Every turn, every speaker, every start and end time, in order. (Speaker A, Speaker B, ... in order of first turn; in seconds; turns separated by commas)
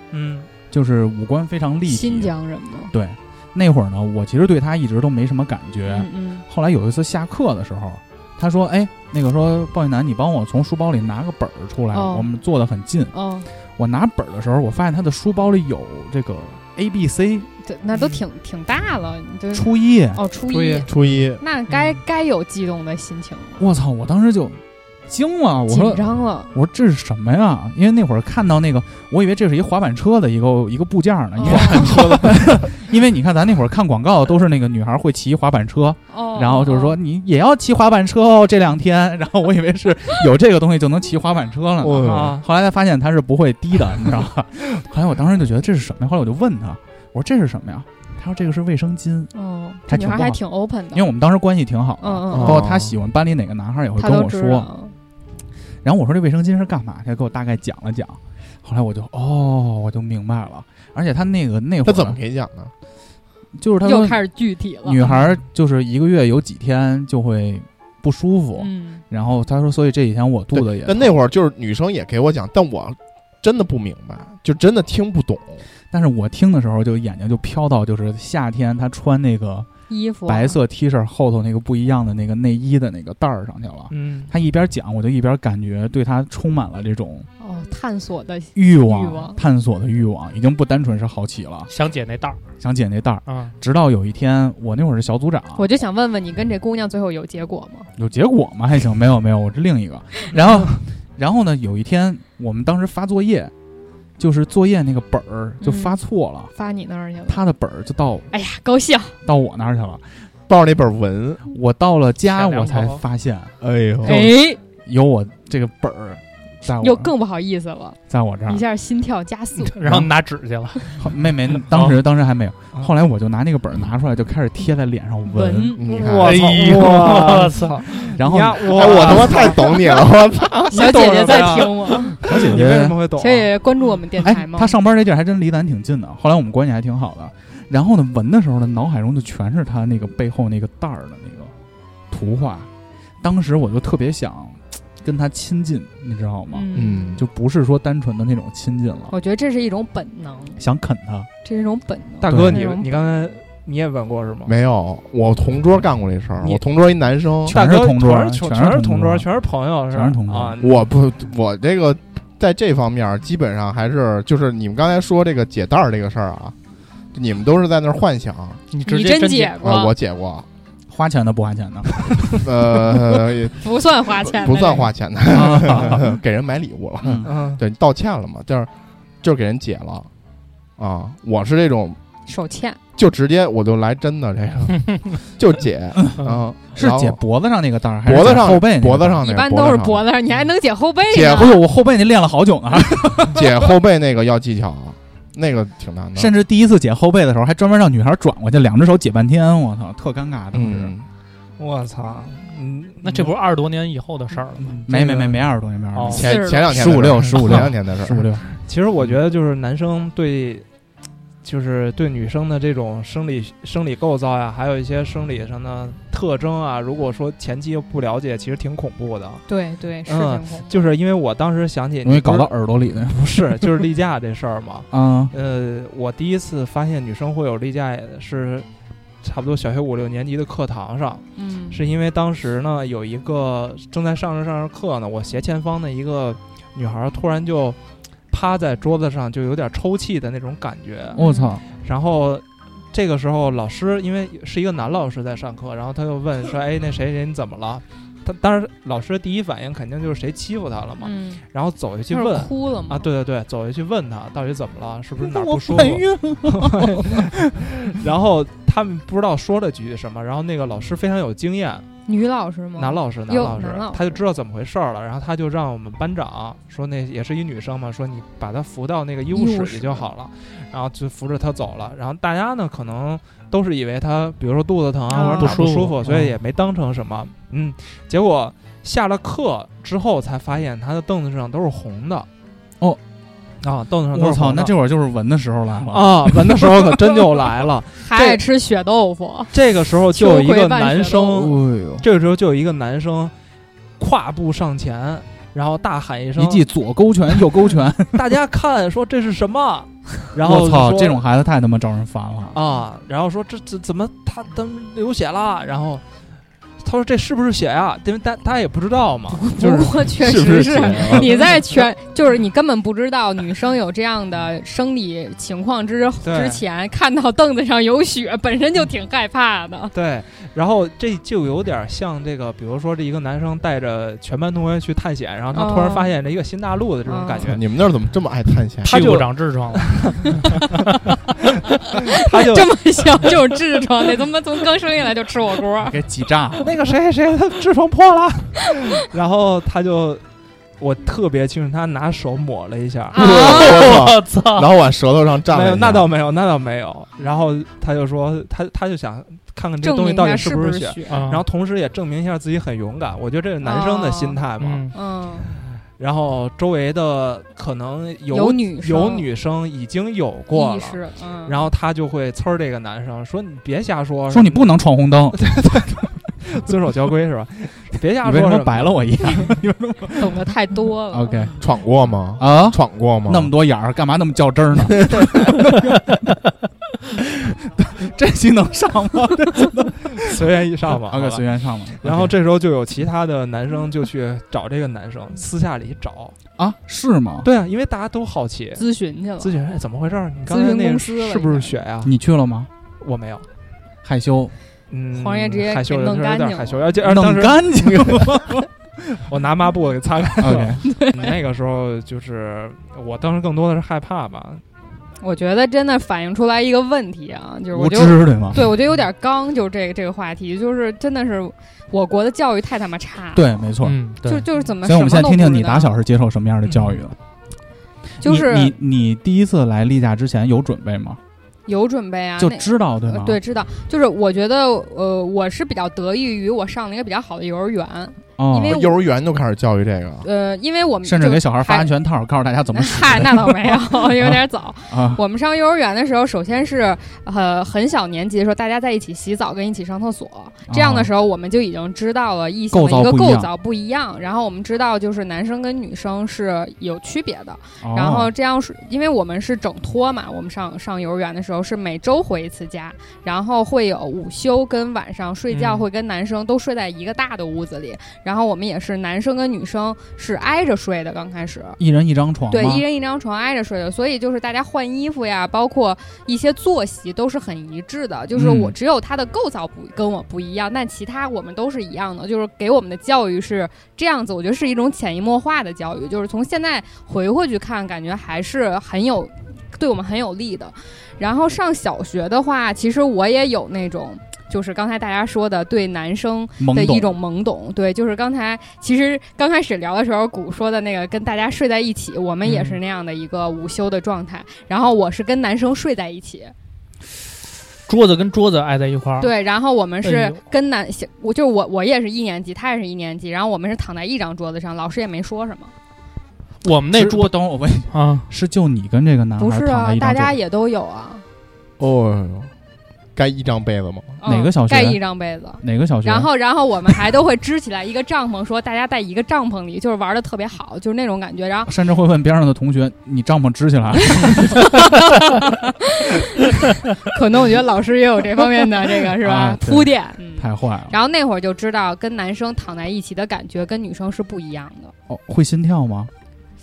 Speaker A: 0.1-0.5, Speaker B: 0.7-2.3, Speaker C: 1.9-2.9, Speaker B: 2.9-13.1, Speaker C: 5.9-6.4, Speaker C: 11.9-12.3, Speaker C: 13.1-13.5, Speaker B: 13.8-17.5, Speaker C: 17.6-23.6, Speaker B: 19.5-20.2, Speaker A: 20.5-20.9, Speaker D: 20.8-21.4, Speaker B: 23.6-49.3, Speaker C: 25.7-26.5, Speaker C: 31.4-32.2, Speaker C: 36.1-37.0, Speaker D: 41.8-42.4, Speaker A: 42.0-42.4, Speaker C: 49.3-51.0, Speaker B: 49.9-50.4, Speaker B: 50.9-54.7, Speaker C: 52.0-52.6, Speaker D: 52.3-53.0, Speaker C: 54.0-54.9, Speaker B: 55.8-62.2, Speaker D: 61.8-62.7, Speaker B: 63.5-64.2, Speaker C: 63.8-65.0, Speaker B: 64.8-71.2, Speaker C: 68.5-69.0, Speaker D: 70.5-75.6, Speaker B: 75.9-79.7, Speaker C: 79.9-80.6, Speaker B: 80.2-87.3, Speaker A: 83.9-84.3, Speaker C: 87.4-89.4, Speaker B: 88.5-91.7, Speaker E: 91.7-92.4, Speaker B: 92.6-95.6, Speaker E: 93.2-93.5, Speaker C: 95.5-97.9, Speaker B: 98.0-103.5, Speaker B: 104.2-106.5, Speaker C: 105.6-107.4, Speaker B: 107.3-108.3, Speaker C: 108.3-109.2, Speaker B: 109.2-110.3, Speaker D: 110.5-111.4, Speaker B: 111.5-113.5, Speaker E: 112.3-113.0, Speaker D: 113.6-114.2, Speaker B: 114.0-117.1, Speaker C: 114.0-114.6, Speaker C: 116.8-119.7, Speaker B: 118.1-118.6, Speaker E: 119.6-121.0, Speaker B: 121.0-125.8, Speaker C: 125.3-125.9, Speaker D: 125.8-126.6, Speaker A: 125.9-129.8, Speaker E: 126.2-128.1, Speaker B: 128.1-129.2, Speaker D: 128.7-131.0, Speaker A: 130.7-133.5, Speaker C: 130.7-132.2, Speaker B: 132.2-133.0, Speaker C: 133.2-134.8, Speaker B: 134.2-141.5, Speaker B: 142.1-142.7, Speaker B: 143.2-149.1, Speaker C: 146.5-147.2, Speaker D: 146.7-147.2, Speaker C: 149.1-150.6, Speaker B: 150.6-151.3, Speaker C: 151.4-152.9, Speaker A: 152.2-154.5, Speaker B: 152.3-152.6, Speaker D: 154.4-157.6, Speaker B: 157.4-159.3, Speaker A: 157.5-160.9, Speaker B: 159.9-160.6, Speaker D: 160.6-166.5, Speaker D: 167.1-168.6, Speaker E: 168.7-169.6, Speaker C: 168.8-169.9, Speaker D: 169.6-170.4, Speaker B: 170.9-173.0, Speaker D: 172.4-173.6, Speaker C: 173.6-174.9, Speaker D: 174.2-178.7, Speaker B: 175.3-176.1, Speaker B: 177.0-177.3, Speaker A: 177.2-177.6, Speaker D: 179.2-180.1, Speaker D: 180.8-182.0, Speaker C: 182.2-182.8, Speaker D: 182.9-187.2, Speaker B: 186.7-189.2, Speaker D: 188.0-190.0, Speaker C: 189.2-191.6, Speaker D: 191.1-191.5, Speaker B: 191.2-193.7, Speaker D: 193.3-196.3, Speaker B: 196.1-200.9, Speaker D: 200.5-201.1, Speaker A: 201.6-203.3, Speaker E: 203.0-204.8, Speaker B: 204.8-208.4, Speaker E: 205.9-206.2, Speaker D: 206.1-208.3, Speaker C: 206.2-206.7, Speaker A: 208.6-210.6, Speaker A: 211.4-219.4, Speaker C: 219.5-220.9, Speaker A: 220.1-228.7, Speaker B: 222.0-223.7, Speaker B: 224.9-225.3, Speaker A: 229.2-237.8, Speaker C: 231.3-231.8, Speaker A: 238.3-241.2, Speaker C: 241.1-241.5, Speaker B: 241.1-241.6, Speaker A: 241.8-261.9, Speaker C: 251.0-251.4, Speaker C: 252.1-253.1, Speaker B: 255.2-257.3, Speaker C: 262.1-264.2, Speaker A: 262.8-282.3, Speaker C: 269.3-270.1, Speaker C: 275.1-275.6, Speaker E: 275.4-276.0, Speaker B: 276.0-276.4, Speaker A: 283.6-284.7, Speaker B: 284.1-286.8, Speaker A: 285.9-288.4, Speaker C: 288.0-289.5, Speaker A: 289.5-293.3, Speaker C: 290.1-291.4, Speaker B: 291.3-292.0, Speaker A: 294.0-296.6, Speaker B: 296.4-298.3, Speaker A: 298.1-301.2, Speaker B: 300.4-302.6, Speaker A: 302.5-306.0, Speaker A: 306.8-309.8, Speaker C: 309.4-319.9, Speaker D: 310.1-311.3, Speaker A: 316.2-316.6, Speaker A: 319.9-327.6, Speaker C: 325.5-326.1, Speaker C: 327.1-327.5, Speaker D: 327.4-328.9, Speaker A: 328.8-330.3, Speaker E: 328.9-330.4, Speaker A: 332.2-333.3, Speaker C: 332.5-335.9, Speaker B: 335.9-336.7, Speaker A: 336.6-340.2, Speaker A: 340.8-343.2, Speaker C: 343.1-343.8, Speaker D: 343.1-346.1, Speaker E: 343.4-344.7, Speaker A: 345.5-354.9, Speaker C: 349.8-351.2, Speaker E: 351.1-351.4, Speaker C: 353.6-354.4, Speaker E: 354.6-354.9, Speaker C: 354.9-355.5, Speaker A: 355.9-364.7, Speaker C: 358.3-359.2, Speaker C: 360.5-361.6, Speaker B: 364.3-365.5, Speaker A: 365.4-369.5, Speaker B: 368.2-370.4, Speaker C: 370.2-371.5, Speaker B: 371.1-371.6, Speaker D: 371.6-373.5, Speaker B: 372.4-375.9, Speaker D: 375.1-375.4, Speaker B: 377.5-380.4, Speaker A: 380.2-381.4, Speaker B: 381.1-382.3, Speaker A: 382.0-386.4, Speaker B: 386.6-387.5, Speaker A: 387.4-388.8, Speaker C: 388.8-389.6, Speaker A: 389.4-392.1, Speaker C: 390.5-391.7, Speaker B: 392.0-392.7, Speaker A: 393.0-393.5, Speaker B: 394.0-394.5, Speaker A: 394.9-398.3, Speaker C: 395.1-396.9, Speaker B: 397.0-398.7, Speaker A: 399.3-404.6, Speaker B: 400.4-400.8, Speaker C: 405.2-413.5, Speaker B: 407.7-408.7, Speaker B: 413.3-414.0, Speaker E: 413.8-414.4, Speaker C: 414.2-415.9, Speaker B: 414.8-417.1, Speaker C: 418.2-418.7, Speaker B: 418.2-421.2, Speaker C: 421.7-428.9, Speaker B: 422.4-423.4, Speaker B: 428.4-428.8, Speaker D: 428.7-430.3, Speaker C: 430.2-431.9, Speaker B: 431.0-435.2, Speaker C: 432.7-461.8, Speaker B: 440.7-441.1, Speaker B: 442.7-443.5, Speaker B: 447.8-448.3, Speaker E: 455.5-455.9, Speaker B: 461.8-462.8, Speaker C: 462.5-496.5, Speaker B: 468.3-468.7, Speaker B: 486.6-487.2, Speaker E: 492.5-492.8, Speaker E: 497.9-499.3, Speaker C: 499.2-505.7, Speaker E: 500.0-500.4, Speaker E: 506.6-507.3, Speaker B: 506.9-510.4, Speaker E: 507.9-508.3, Speaker C: 509.4-511.2, Speaker D: 511.8-512.5, Speaker D: 513.1-514.2, Speaker C: 514.2-521.7, Speaker B: 514.2-515.0, Speaker B: 515.6-516.3, Speaker B: 521.7-524.9, Speaker C: 524.2-526.5, Speaker C: 527.0-534.9, Speaker B: 529.2-530.9, Speaker B: 535.1-536.1